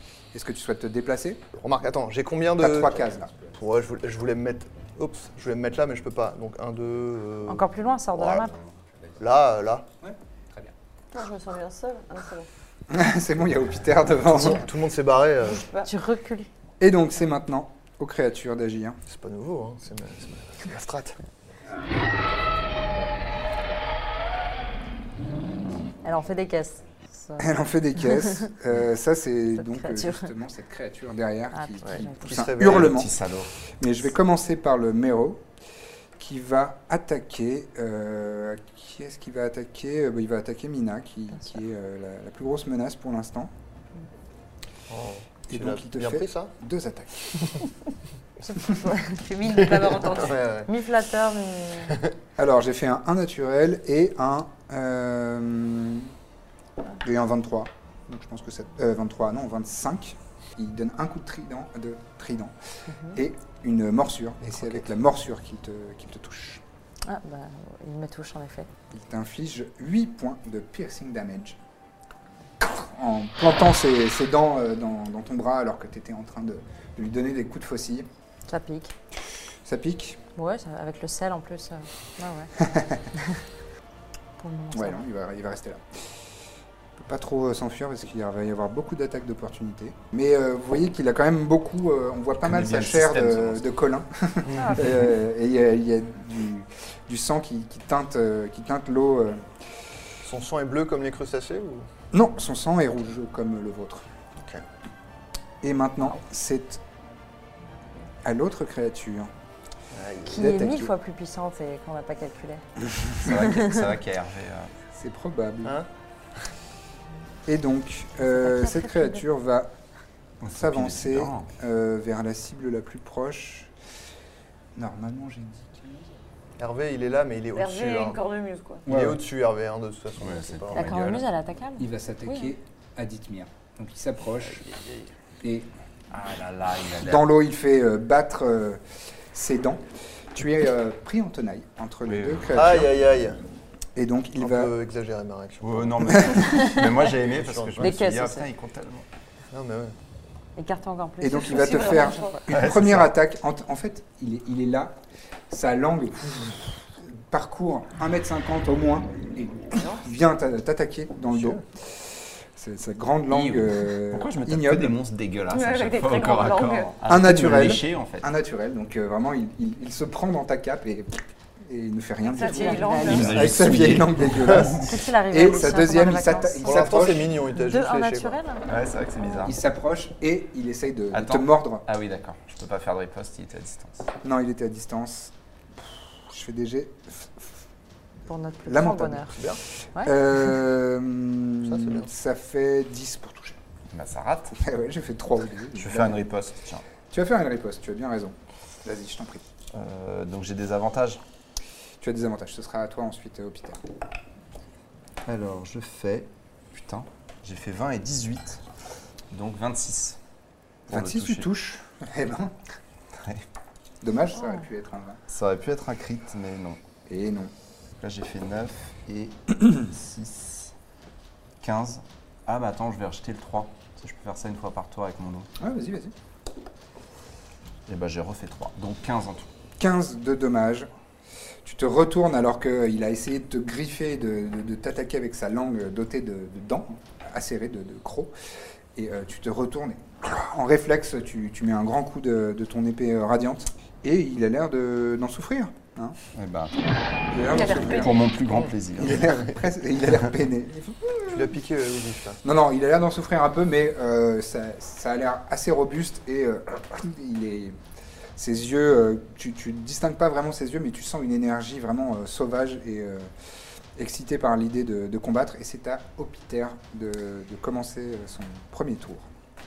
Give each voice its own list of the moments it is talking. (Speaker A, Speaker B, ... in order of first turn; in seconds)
Speaker A: 0.3-1.4, 2.6-3.4, 10.0-10.7, 12.9-14.7, 16.8-19.0, 27.4-33.1, 33.8-35.5, 36.2-43.5, 45.5-47.5, 52.4-56.1, 57.0-62.5, 63.1-66.6, 68.9-71.6, 72.6-78.1, 79.6-80.2, 82.6-83.0, 84.7-86.0, 87.0-99.5, 102.1-104.1, 105.6-106.8, 108.2-109.3, 110.3-110.9, 114.9-115.8, 117.5-119.7, 120.5-123.7, 124.8-126.1, 128.9-129.2, 130.8-131.2, 131.8-134.7, 135.4-135.7, 137.0-143.0, 143.9-144.7, 146.2-146.5, 151.2-155.0, 155.5-165.0, 167.1-177.4, 179.4-181.8, 184.2-187.5, 188.7-193.6, 194.6-196.2, 197.1-199.4, 202.0-203.8, 210.9-212.6, 214.0-215.2, 217.1-217.5, 225.6-226.1, 229.8-230.9, 231.6-238.3, 238.9-246.2, 247.3-248.2, 249.0-251.6, 252.4-257.8, 258.4-263.3, 264.0-269.3
Speaker B: 1.5-8.5, 9.2-9.9, 14.3-15.7, 19.1-21.2, 31.9-33.0, 44.9-46.5, 49.5-50.7, 94.5-94.9, 100.2-101.9, 109.9-110.4, 126.6-128.2, 128.9-130.9, 142.5-143.4, 144.4-146.6, 147.1-147.9, 149.5-150.0, 173.3-174.0, 176.6-178.4, 189.3-189.6, 191.6-192.1, 247.6-248.7, 251.3-252.4
Speaker C: 7.5-8.5, 15.8-16.5, 26.0-28.5, 29.6-30.3, 31.5-32.3, 48.4-50.0, 50.7-51.9, 62.9-63.2, 67.1-68.7, 78.5-78.9, 80.4-82.5, 83.2-83.4, 84.4-85.0, 94.5-94.9, 110.3-112.6, 113.3-113.8, 118.2-119.2, 130.7-132.5, 146.4-146.8, 147.8-148.5, 150.6-152.4, 172.4-173.3, 174.8-177.0, 177.6-178.6, 188.3-189.4
Speaker D: 11.1-12.5, 15.4-15.9, 49.2-50.4, 127.5-128.9, 151.5-152.4, 159.7-160.1, 165.5-166.9, 172.2-173.4, 247.8-248.0
Speaker E: 32.6-33.5, 92.4-93.7, 113.1-114.7, 120.4-121.5, 130.2-131.2, 136.1-137.3, 142.1-142.9, 145.6-149.1, 152.5-153.1, 163.3-168.3, 173.1-174.9, 178.7-179.6, 181.1-184.1, 193.9-194.6, 195.8-196.8, 199.7-201.2, 205.3-208.7, 209.3-210.2, 210.9-211.5, 213.2-213.4, 215.3-216.8, 218.0-220.7, 221.6-225.5, 227.9-229.5, 246.3-249.5